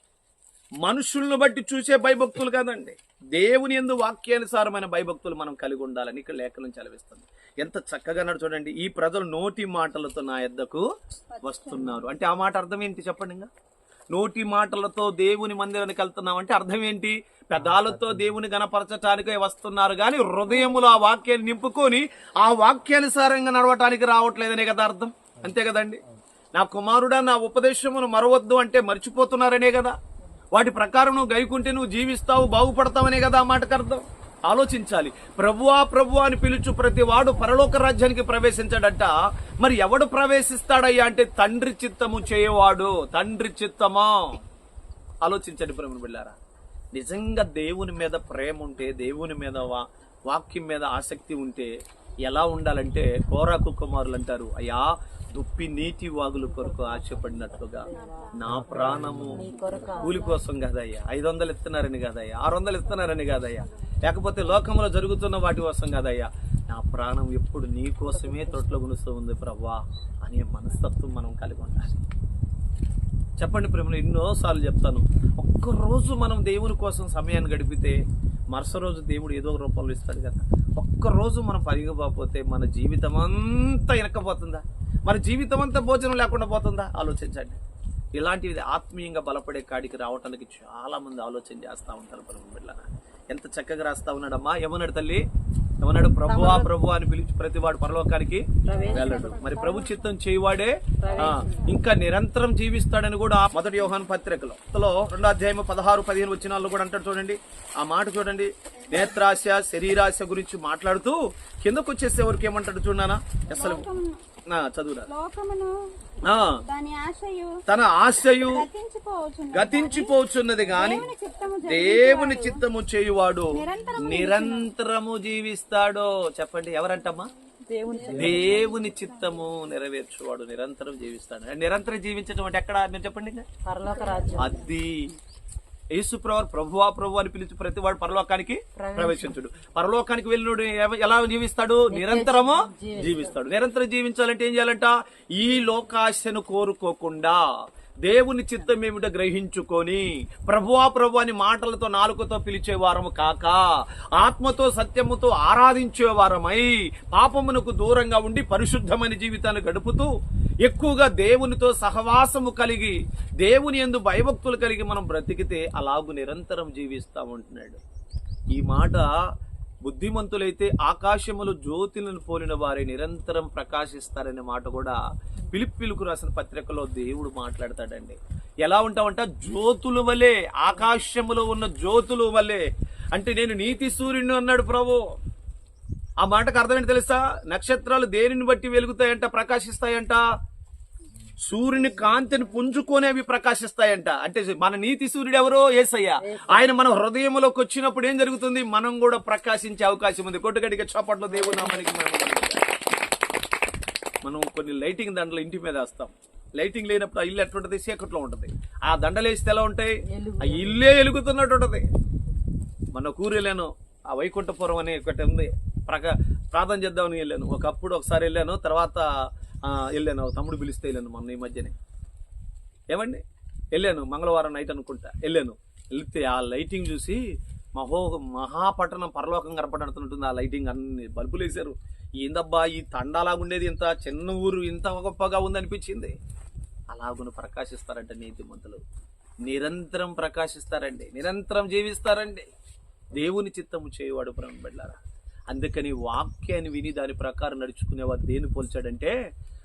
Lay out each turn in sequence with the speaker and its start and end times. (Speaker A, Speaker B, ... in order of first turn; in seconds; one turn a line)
Speaker A: 0.8-13.5
Speaker A: 14.1-26.0
Speaker A: 26.5-29.9
Speaker A: 30.5-44.4
Speaker A: 45.2-46.4
Speaker A: 46.9-51.7
Speaker A: 52.2-59.4
Speaker B: 59.3-60.4
Speaker A: 60.0-72.0
Speaker B: 68.1-68.6
Speaker A: 73.4-78.0
Speaker A: 78.5-87.6
Speaker A: 88.1-95.2
Speaker A: 95.8-113.9
Speaker B: 96.2-96.7
Speaker B: 98.6-99.4
Speaker B: 101.0-101.5
Speaker C: 113.6-114.2
Speaker A: 114.5-115.1
Speaker C: 115.1-115.7
Speaker A: 116.2-116.6
Speaker C: 116.5-117.6
Speaker A: 117.7-118.7
Speaker C: 118.3-120.1
Speaker A: 119.5-121.0
Speaker C: 120.7-122.6
Speaker A: 121.6-127.3
Speaker C: 123.5-124.7
Speaker B: 127.7-128.7
Speaker A: 128.1-133.5
Speaker B: 133.6-134.6
Speaker A: 134.4-135.1
Speaker A: 135.9-147.4
Speaker B: 138.7-139.4
Speaker B: 141.9-143.4
Speaker A: 148.0-160.1
Speaker A: 160.6-167.8
Speaker A: 168.5-169.1
Speaker A: 169.8-175.0
Speaker A: 175.5-185.1
Speaker A: 186.2-190.2
Speaker A: 191.4-202.7
Speaker B: 196.2-196.7
Speaker A: 204.2-211.9
Speaker B: 210.1-210.9
Speaker A: 212.9-221.8
Speaker A: 222.9-223.2
Speaker A: 223.7-227.2
Speaker A: 227.7-236.1
Speaker A: 236.9-238.8
Speaker A: 239.4-242.5
Speaker A: 243.1-245.0
Speaker A: 245.5-249.1